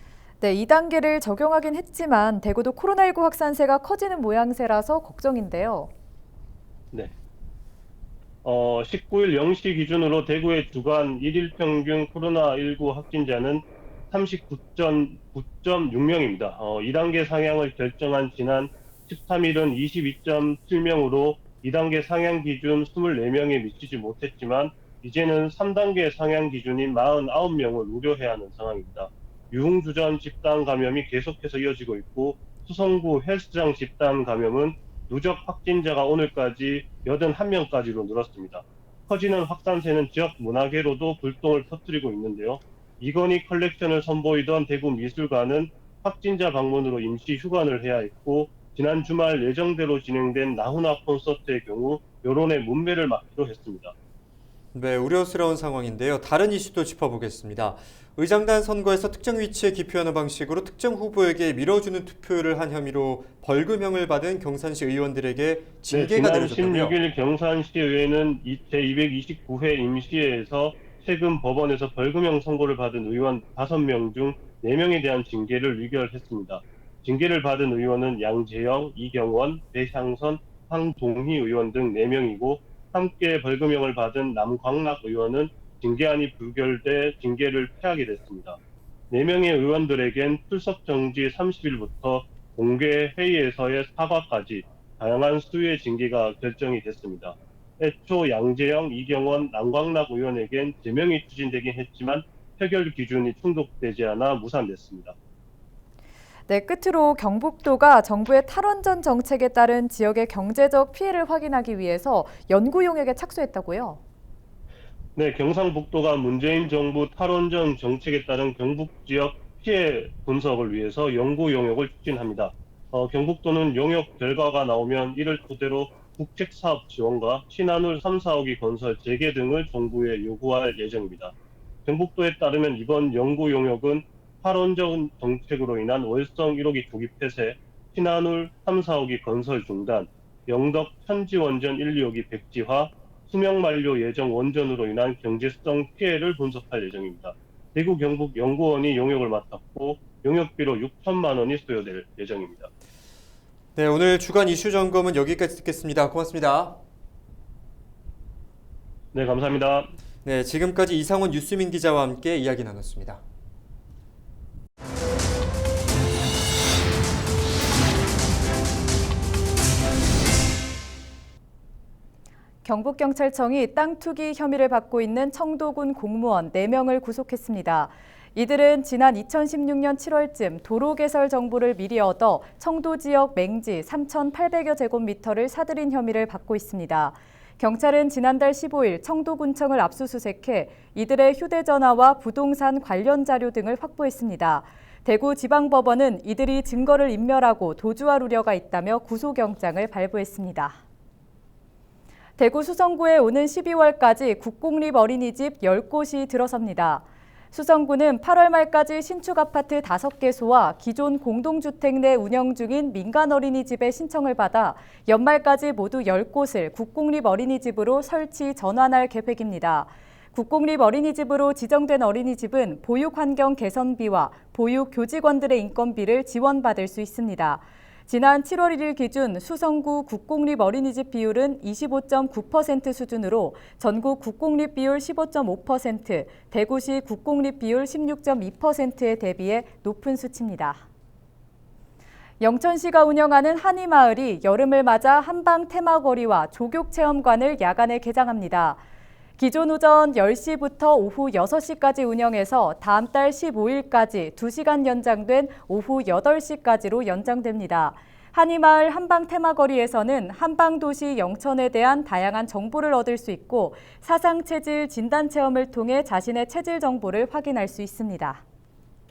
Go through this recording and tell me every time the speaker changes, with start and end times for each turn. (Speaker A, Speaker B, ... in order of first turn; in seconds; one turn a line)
Speaker A: 0.4-5.9
Speaker B: 8.4-53.9
Speaker C: 54.7-67.0
Speaker B: 65.9-88.6
Speaker B: 89.1-105.2
Speaker A: 106.5-114.0
Speaker B: 115.2-131.3
Speaker B: 131.8-152.7
Speaker C: 153.8-156.8
Speaker B: 159.1-159.9
Speaker C: 160.2-163.2
Speaker A: 172.6-200.8
Speaker A: 202.4-240.8
Speaker A: 242.4-248.8
Speaker A: 249.4-268.4